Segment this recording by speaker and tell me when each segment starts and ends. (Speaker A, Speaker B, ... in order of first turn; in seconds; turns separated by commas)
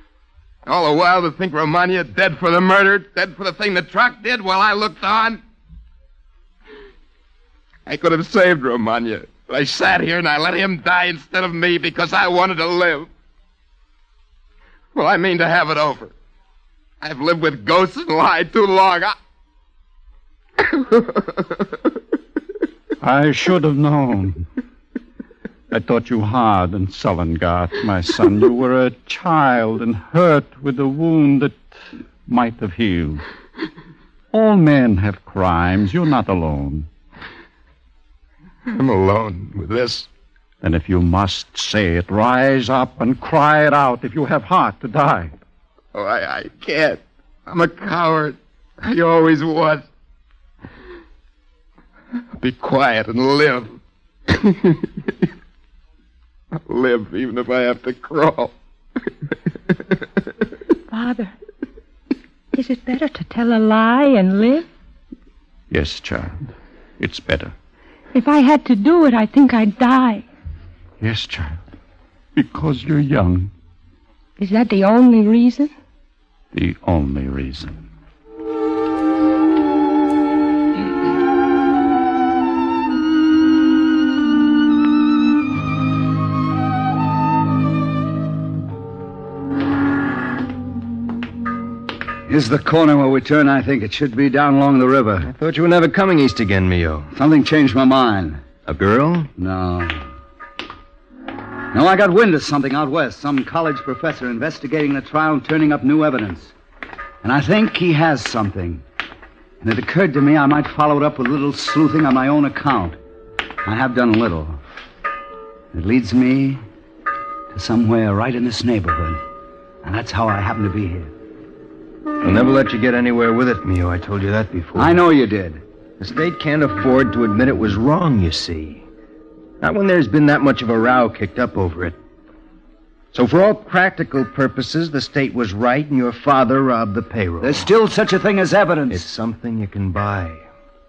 Speaker A: 0.7-5.4, Speaker A: 7.9-13.1, Speaker A: 14.9-16.1, Speaker A: 17.0-19.2, Speaker B: 23.0-24.4, Speaker B: 25.7-31.8, Speaker B: 32.3-33.2, Speaker B: 34.3-36.9, Speaker A: 38.7-40.1, Speaker B: 40.6-45.4, Speaker A: 45.9-49.9, Speaker A: 52.4-53.8, Speaker A: 54.3-54.9, Speaker A: 56.5-58.5, Speaker C: 60.9-61.4, Speaker C: 62.5-64.7, Speaker B: 65.7-66.4, Speaker B: 67.0-67.5, Speaker C: 68.1-70.3, Speaker B: 71.0-71.6, Speaker B: 72.3-73.5, Speaker C: 74.4-75.7, Speaker B: 76.5-77.8, Speaker D: 92.3-95.3, Speaker E: 95.2-97.1, Speaker D: 97.1-98.4, Speaker E: 98.7-99.3, Speaker D: 99.4-100.0, Speaker D: 101.7-106.5, Speaker D: 107.2-108.8, Speaker D: 109.6-113.0, Speaker D: 113.6-114.6, Speaker D: 115.7-116.6, Speaker D: 117.5-119.2, Speaker D: 119.8-121.1, Speaker E: 122.2-125.0, Speaker D: 124.8-125.6, Speaker E: 126.0-128.8, Speaker E: 129.6-132.0, Speaker E: 133.1-137.7, Speaker D: 137.4-139.0, Speaker E: 138.9-140.4